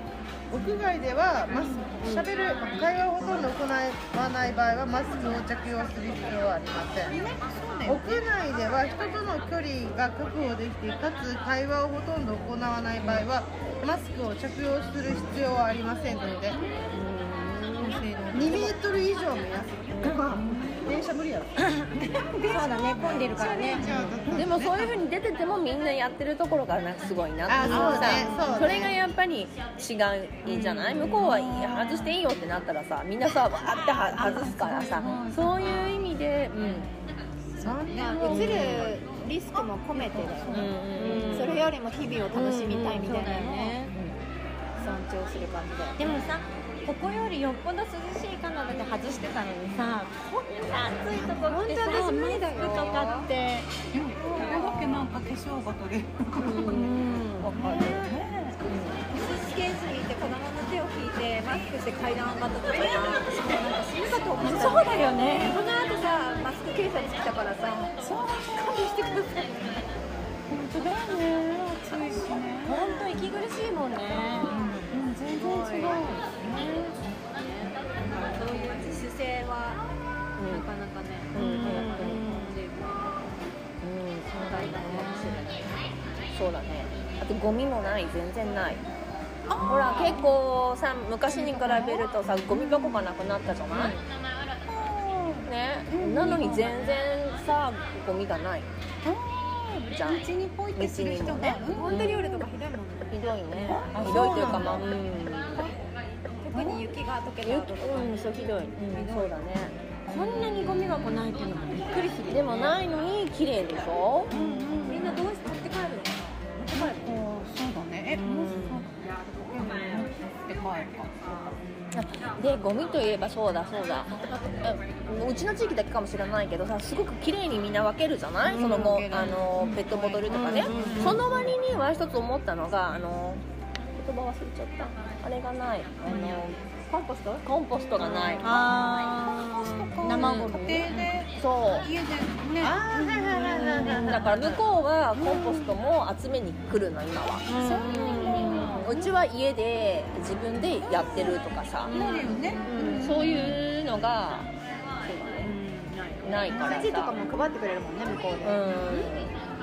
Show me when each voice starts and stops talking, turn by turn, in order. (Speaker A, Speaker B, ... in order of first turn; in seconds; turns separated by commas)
Speaker A: 0.5-7.2, Speaker B: 1.6-2.2, Speaker B: 5.2-5.4, Speaker B: 7.1-8.1, Speaker A: 7.9-16.6, Speaker B: 16.6-16.9, Speaker C: 16.9-18.1, Speaker B: 17.8-18.4, Speaker A: 18.3-21.7, Speaker B: 20.3-20.9, Speaker D: 21.7-23.8, Speaker B: 22.4-24.9, Speaker A: 23.8-24.7, Speaker C: 24.3-36.9, Speaker A: 27.5-29.0, Speaker B: 27.6-28.9, Speaker B: 30.6-32.2, Speaker B: 33.8-36.0, Speaker B: 36.6-38.8, Speaker A: 37.6-38.8, Speaker E: 38.0-40.7, Speaker C: 38.3-38.9, Speaker B: 40.0-41.3, Speaker C: 40.5-41.7, Speaker D: 41.0-41.5, Speaker E: 41.3-43.8, Speaker D: 42.3-43.9, Speaker E: 44.8-46.0, Speaker D: 46.0-53.7, Speaker E: 50.5-53.3, Speaker B: 53.9-56.9, Speaker D: 54.4-54.9, Speaker C: 56.4-58.0, Speaker D: 56.6-57.5, Speaker B: 57.5-58.6, Speaker C: 58.6-59.1, Speaker E: 59.1-68.0, Speaker D: 64.4-65.6, Speaker B: 68.0-69.5, Speaker E: 68.8-69.3, Speaker B: 70.5-72.9, Speaker D: 72.7-74.5, Speaker B: 74.3-77.2, Speaker E: 75.3-76.0, Speaker E: 77.3-79.8, Speaker C: 80.4-80.7, Speaker E: 80.5-83.3, Speaker C: 81.3-82.2, Speaker D: 81.3-82.5, Speaker C: 83.8-85.4, Speaker E: 84.3-85.8, Speaker C: 86.3-88.8, Speaker B: 89.5-90.4, Speaker C: 89.6-94.0, Speaker B: 91.3-93.1, Speaker B: 94.7-97.0, Speaker C: 95.5-98.7, Speaker B: 99.0-102.5, Speaker C: 99.9-100.2, Speaker C: 100.8-102.2, Speaker E: 101.6-103.2, Speaker C: 103.1-105.7, Speaker B: 103.6-104.9, Speaker A: 103.9-104.9, Speaker E: 106.4-108.4, Speaker B: 106.5-106.8, Speaker C: 107.4-109.8, Speaker E: 108.9-109.3, Speaker D: 110.1-112.8, Speaker C: 112.3-114.3, Speaker B: 114.3-115.2, Speaker E: 114.4-117.2, Speaker B: 116.7-121.6, Speaker C: 118.2-118.9, Speaker C: 121.9-133.4, Speaker D: 128.4-129.0, Speaker B: 128.7-131.5, Speaker D: 130.3-131.3, Speaker C: 133.9-136.7, Speaker D: 136.1-136.4, Speaker E: 136.9-137.4, Speaker C: 137.4-138.7, Speaker D: 138.4-140.9, Speaker B: 139.4-144.2, Speaker C: 140.0-141.9, Speaker A: 142.6-144.6, Speaker C: 143.9-154.5, Speaker B: 145.2-145.8, Speaker D: 147.5-148.8, Speaker B: 147.5-149.2, Speaker D: 151.9-153.2, Speaker B: 151.9-153.6, Speaker C: 155.0-155.5, Speaker E: 155.4-159.2, Speaker C: 156.2-157.1, Speaker C: 158.4-159.3